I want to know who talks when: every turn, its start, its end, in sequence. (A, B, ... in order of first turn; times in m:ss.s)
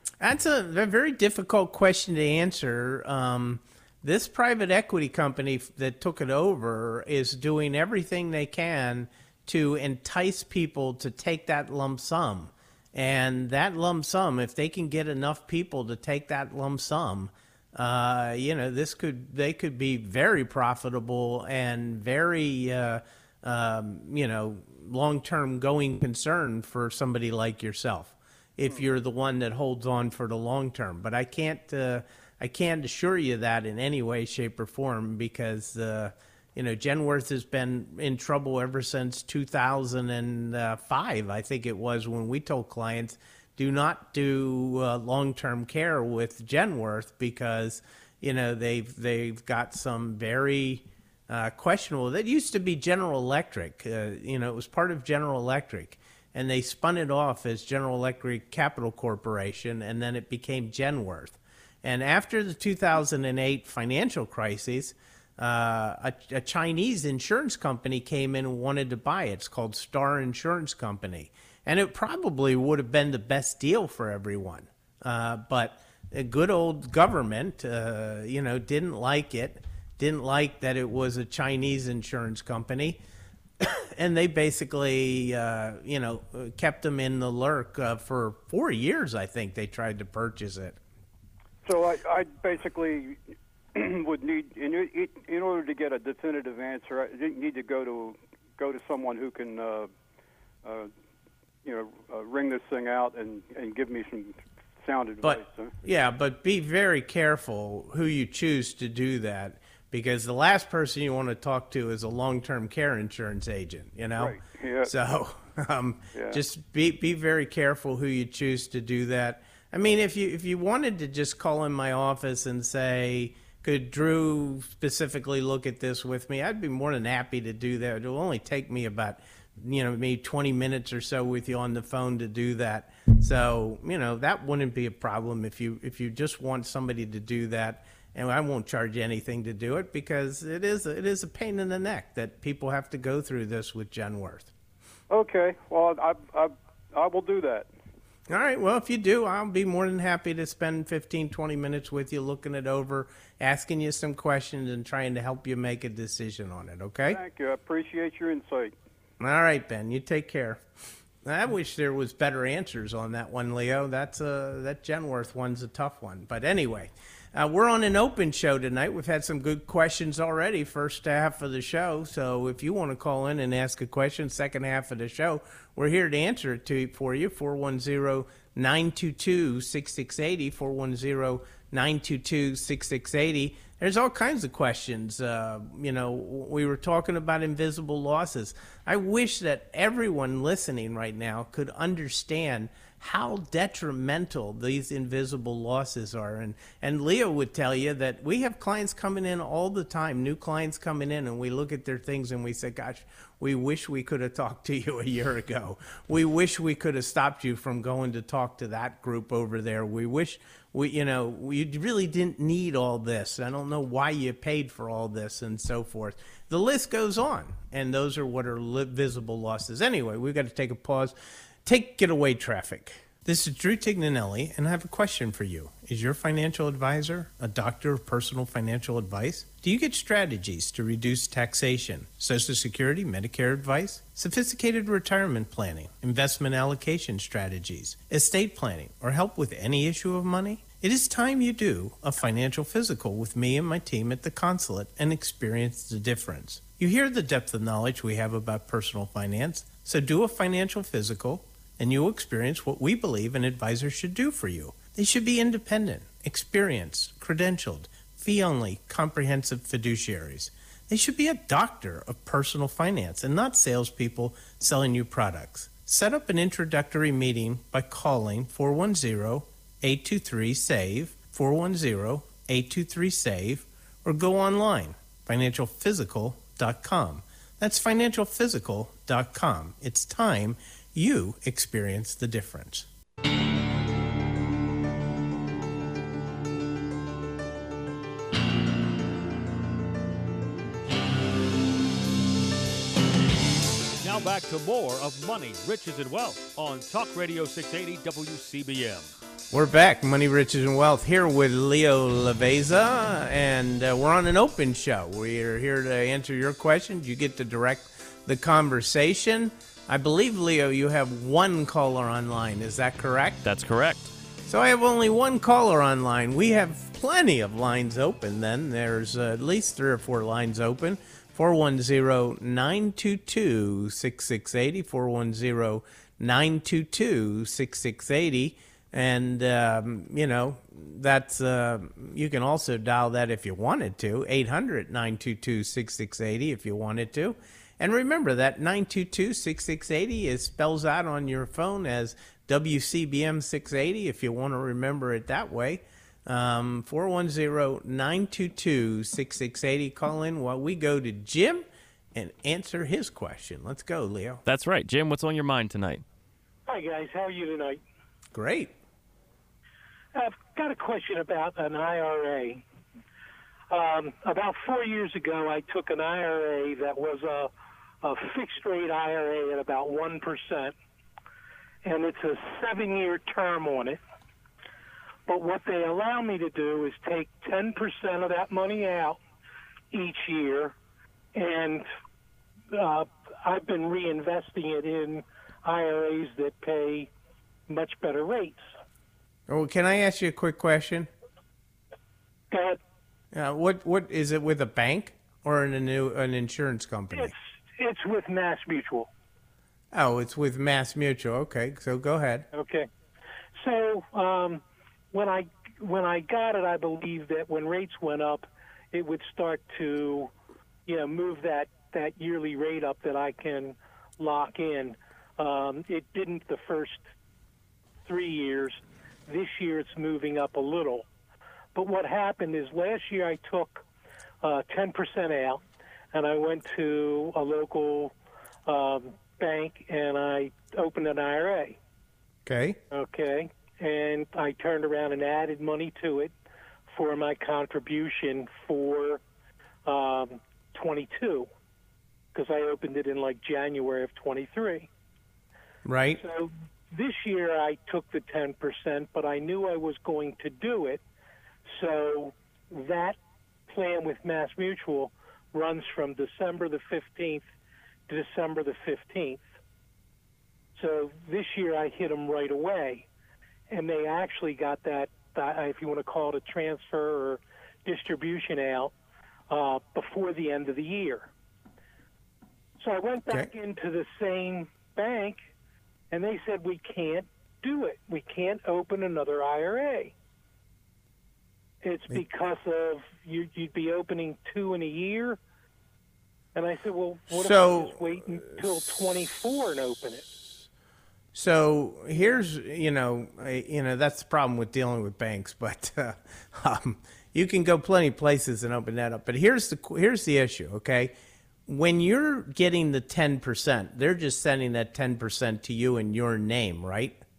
0:00.2-1:23.0 A
1:23.6-1:30.8 A
1:31.6-1:33.2 B
1:33.7-1:39.9 B
1:40.6-1:40.9 B
1:41.6-1:45.8 B
1:45.2-2:24.5 A
1:54.2-1:54.9 B
1:56.1-1:56.4 B
2:25.1-2:27.7 B
2:28.3-2:37.2 A
2:37.1-2:38.7 B
2:39.2-2:40.6 A
2:41.2-3:41.1 A
3:41.6-4:42.9 A
4:54.0-4:59.1 C
4:59.5-5:13.4 A
5:13.4-5:14.1 D
5:14.4-5:54.4 A
5:54.4-5:56.0 D
5:56.7-5:57.8 E
5:58.3-5:58.7 A
6:00.1-6:02.6 E
6:03.7-6:07.5 E
6:08.0-6:10.7 E
6:11.8-6:14.0 E
6:15.3-6:19.2 E
6:19.9-6:20.7 E
6:21.3-6:21.8 E
6:22.7-6:27.1 E
6:27.7-6:28.6 E
6:29.5-6:31.1 A
6:32.5-6:32.8 E
6:33.3-6:37.3 A
6:37.1-6:39.1 E
6:39.9-6:42.5 A
6:42.5-6:42.9 E
6:43.6-6:50.3 E
6:50.8-6:57.0 E
6:58.0-7:01.1 E
7:01.7-7:03.8 E
7:04.4-7:05.6 E
7:06.1-7:08.1 E
7:08.6-7:11.8 E
7:12.4-7:12.8 A
7:12.9-7:16.3 E
7:16.9-7:19.2 E
7:19.8-7:21.5 E
7:22.3-7:24.9 E
7:25.8-7:26.2 A
7:26.2-7:31.0 E
7:31.7-7:33.2 E
7:33.7-7:37.4 E
7:38.1-7:39.4 E
7:40.7-7:43.0 E
7:43.7-7:48.9 E
7:49.5-7:51.3 E
7:52.8-7:55.4 E
7:56.1-8:00.1 E
8:01.8-8:05.4 E
8:06.5-8:10.3 E
8:07.3-8:08.7 A
8:11.3-8:21.1 A
8:21.7-8:27.2 A